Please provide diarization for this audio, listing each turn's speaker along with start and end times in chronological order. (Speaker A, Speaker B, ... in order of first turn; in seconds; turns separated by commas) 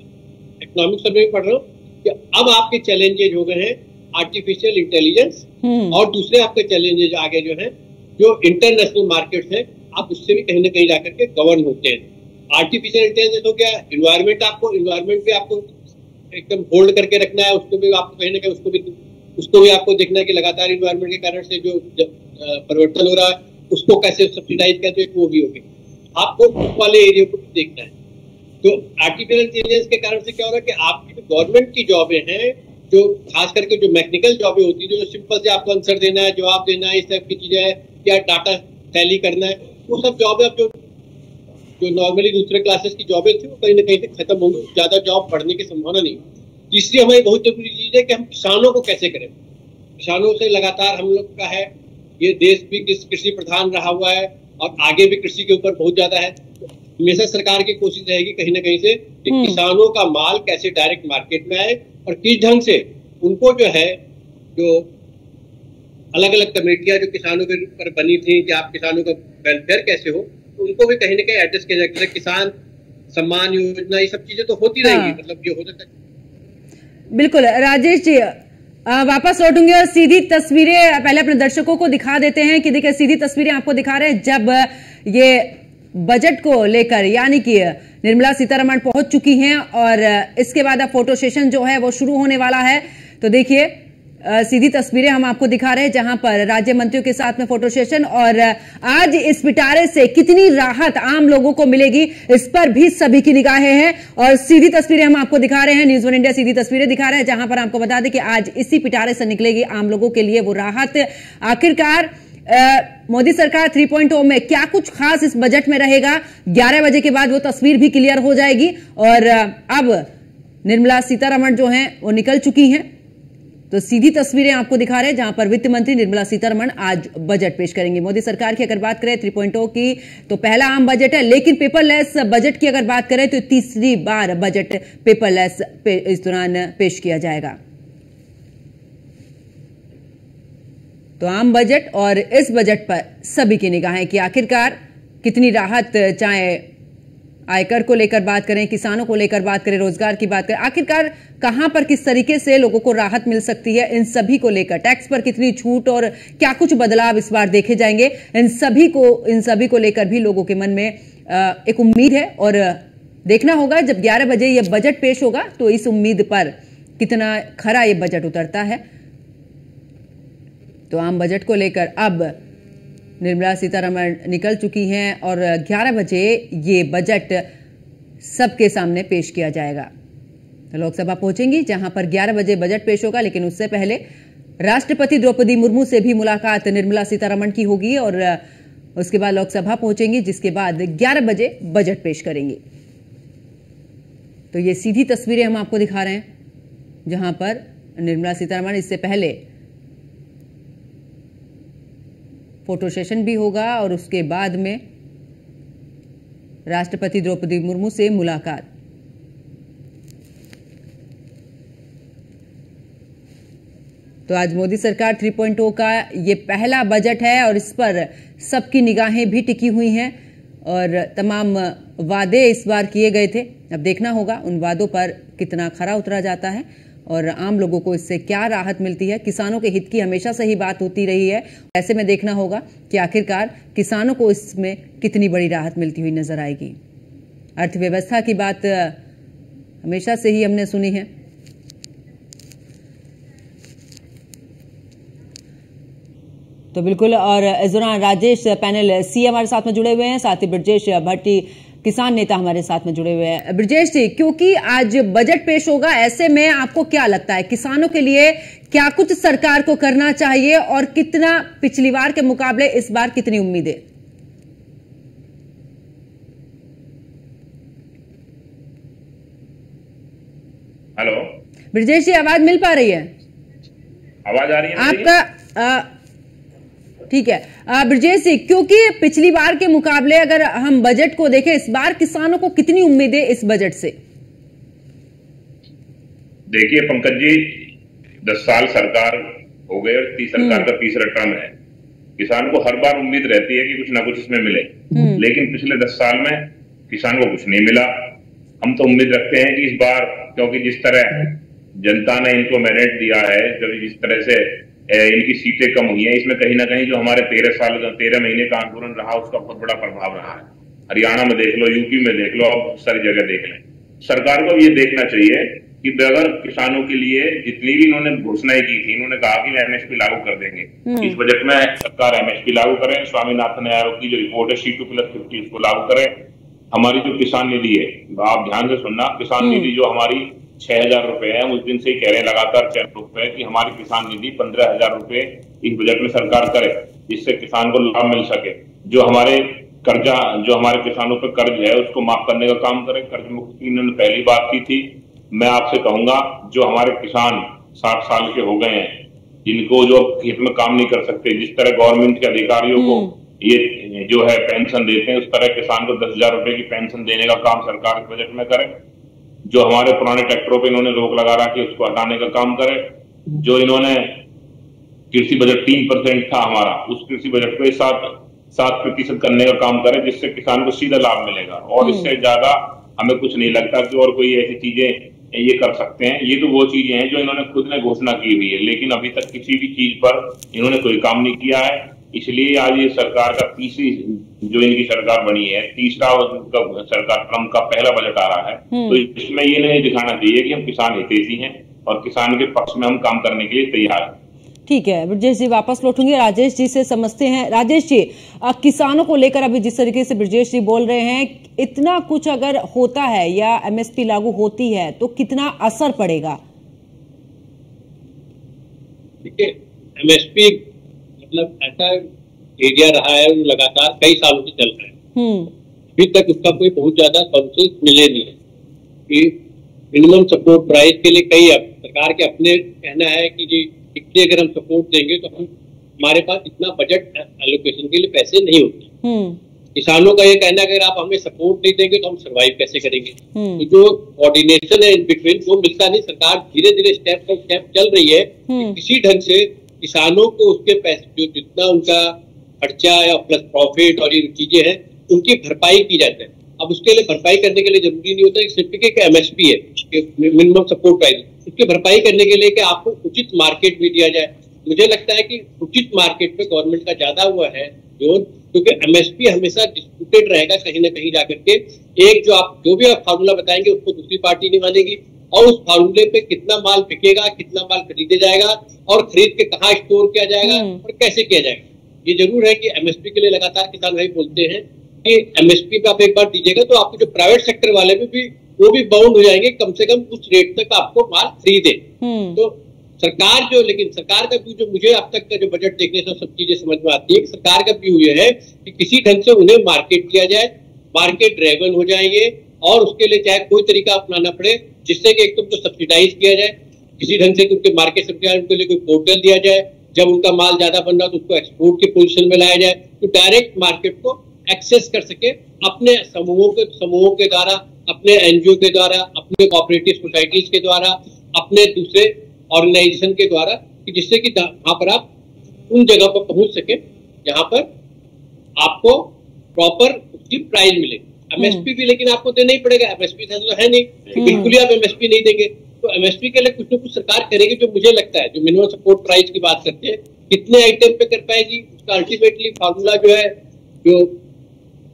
Speaker A: 0.6-15.7, Speaker B: 5.6-6.0, Speaker A: 16.3-25.6, Speaker A: 26.1-27.9, Speaker A: 28.6-40.7, Speaker A: 41.8-49.3, Speaker A: 50.0-64.0, Speaker B: 59.3-59.6, Speaker A: 64.5-64.9, Speaker A: 66.1-72.5, Speaker A: 73.1-75.9, Speaker B: 74.8-75.2, Speaker B: 77.1-120.1, Speaker B: 120.6-122.9, Speaker B: 123.7-137.6, Speaker B: 141.2-146.6, Speaker B: 147.5-168.8, Speaker B: 170.9-172.3, Speaker B: 173.2-177.5, Speaker B: 178.2-179.9, Speaker B: 180.7-184.0, Speaker B: 184.6-188.4, Speaker B: 188.9-192.6, Speaker B: 194.5-196.2, Speaker B: 197.1-199.4, Speaker B: 202.7-204.8, Speaker B: 206.7-208.6, Speaker B: 214.3-220.1, Speaker B: 220.6-236.8, Speaker B: 237.6-239.0, Speaker B: 239.8-241.1, Speaker B: 246.7-263.8, Speaker C: 271.0-271.4, Speaker B: 271.7-273.1, Speaker C: 274.2-275.1, Speaker B: 274.8-275.9, Speaker B: 277.1-283.9, Speaker C: 286.5-287.7, Speaker C: 288.2-291.5, Speaker B: 290.4-290.7, Speaker C: 292.2-358.8, Speaker B: 294.9-295.2, Speaker B: 320.9-321.2, Speaker B: 329.4-329.7, Speaker B: 352.8-353.1, Speaker C: 359.5-364.2, Speaker C: 365.1-394.1, Speaker B: 371.8-372.1, Speaker B: 388.7-389.0, Speaker B: 394.7-406.4, Speaker A: 409.2-410.6, Speaker A: 411.2-412.0, Speaker A: 412.6-414.9, Speaker B: 415.1-415.5, Speaker A: 415.9-418.3, Speaker A: 419.1-419.4, Speaker A: 419.9-428.9, Speaker B: 429.0-429.4, Speaker A: 429.7-515.0, Speaker B: 433.3-433.6, Speaker B: 438.5-438.8, Speaker B: 470.4-470.8, Speaker B: 482.0-482.4, Speaker A: 515.7-517.7, Speaker A: 518.6-534.2, Speaker B: 521.4-521.6, Speaker B: 524.1-524.5